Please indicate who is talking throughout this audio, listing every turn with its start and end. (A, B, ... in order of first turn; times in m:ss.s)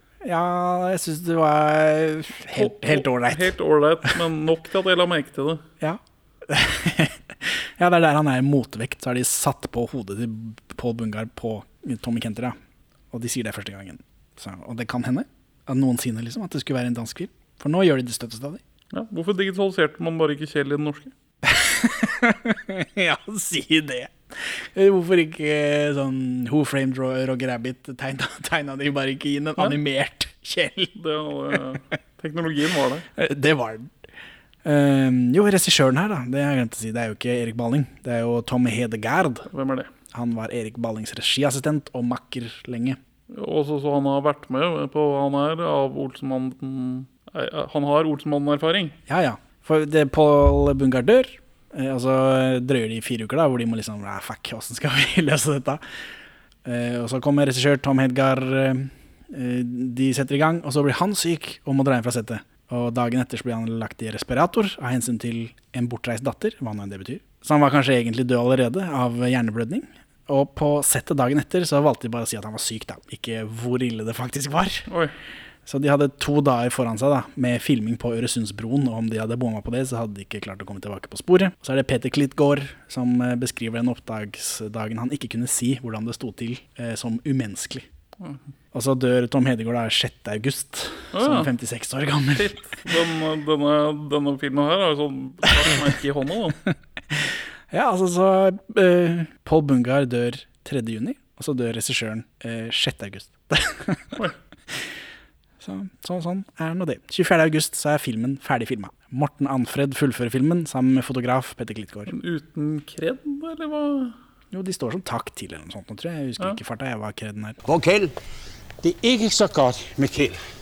0:00.2-0:03.6 A
0:02.5-0:05.6 B
0:05.8-0:12.6 A
0:13.1-0:18.6 A
0:18.9-0:21.1 B
0:21.4-0:30.9 A
0:31.0-0:33.1 B
0:33.2-0:33.9 A
0:34.6-0:39.5 A
0:39.5-0:39.9 B
0:40.1-0:43.0 A
0:43.3-0:49.0 B
0:49.1-0:55.8 A
0:56.6-1:14.9 A
1:14.9-1:15.1 B
1:15.7-1:27.9 A
1:28.7-1:32.6 A
1:31.1-1:31.5 B
1:32.4-1:36.6 B
1:37.7-1:44.2 A
1:45.6-1:52.1 A
1:52.1-1:54.1 B
1:54.5-1:57.6 A
1:57.7-1:58.1 C
1:58.8-2:00.4 C